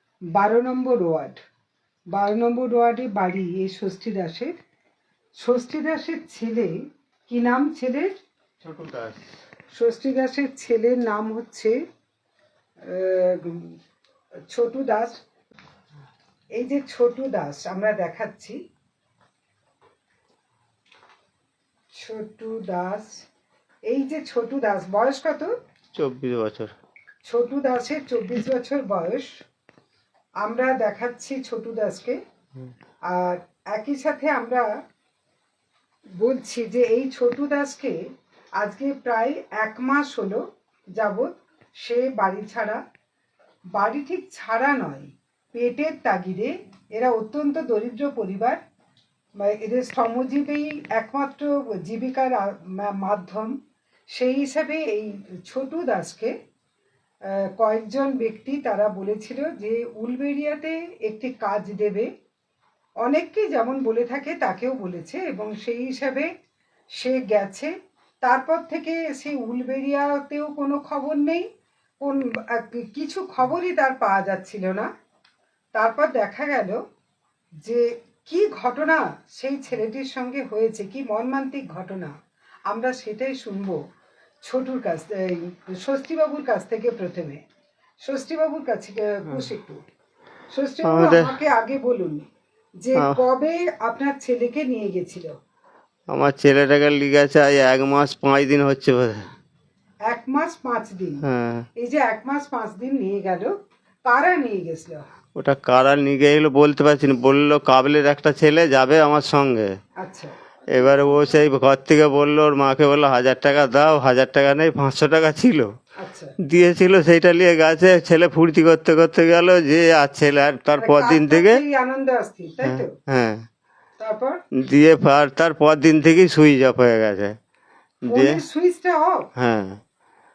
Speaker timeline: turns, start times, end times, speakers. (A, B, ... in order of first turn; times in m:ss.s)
0:00.3-0:01.4 A
0:02.1-0:04.6 A
0:05.4-0:08.2 A
0:08.6-0:09.2 B
0:09.8-0:11.8 A
0:12.9-0:13.8 A
0:14.5-0:15.2 A
0:16.6-0:18.6 A
0:21.9-0:23.2 A
0:23.9-0:25.5 A
0:26.0-0:26.7 B
0:27.3-0:29.3 A
0:30.4-0:32.2 A
0:33.1-0:34.7 A
0:36.2-0:38.0 A
0:38.6-0:40.4 A
0:40.9-0:42.8 A
0:43.7-0:48.6 A
0:49.4-0:53.6 A
0:54.1-0:56.3 A
0:57.3-1:02.1 A
1:03.0-1:06.3 A
1:07.0-1:11.5 A
1:12.0-1:14.9 A
1:15.8-1:16.8 A
1:17.6-1:22.2 A
1:22.7-1:23.8 A
1:24.4-1:27.4 A
1:28.0-1:29.8 A
1:30.5-1:32.3 A
1:30.8-1:31.3 B
1:32.8-1:35.4 A
1:36.1-1:39.3 B
1:40.1-1:41.2 A
1:41.2-1:41.7 B
1:41.8-1:43.5 A
1:44.1-1:45.0 A
1:45.4-1:49.7 B
1:50.0-1:50.3 A
1:50.7-1:55.7 B
1:56.0-1:56.4 A
1:56.4-2:01.6 B
2:00.8-2:02.9 A
2:02.6-2:03.5 B
2:04.0-2:04.4 A
2:04.6-2:07.4 B
2:08.1-2:08.4 B
2:08.1-2:09.3 A
2:09.4-2:09.8 B